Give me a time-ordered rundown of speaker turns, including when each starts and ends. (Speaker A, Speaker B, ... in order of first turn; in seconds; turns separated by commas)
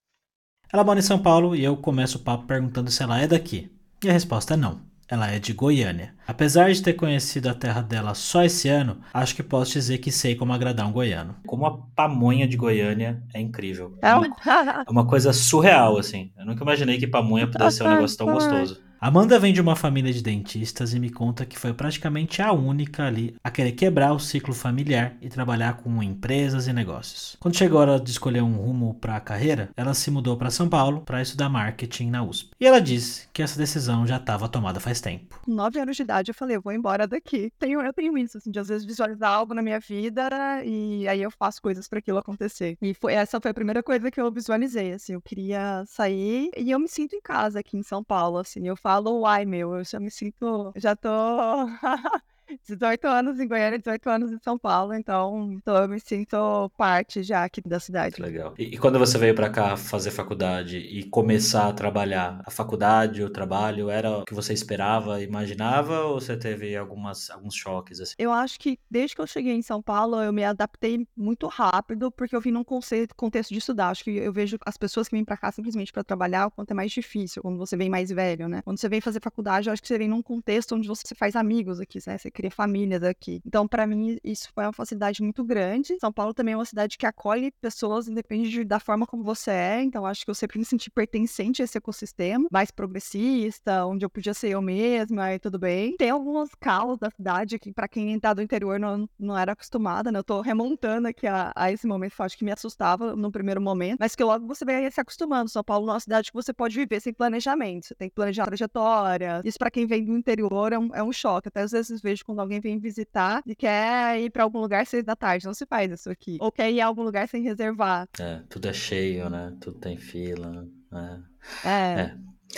Speaker A: 0.7-35.4, Speaker B: 14.0-14.9, Speaker B: 17.4-18.7, Speaker B: 35.4-58.3, Speaker A: 58.1-68.2, Speaker B: 68.2-118.1, Speaker A: 118.2-121.3, Speaker B: 121.6-122.1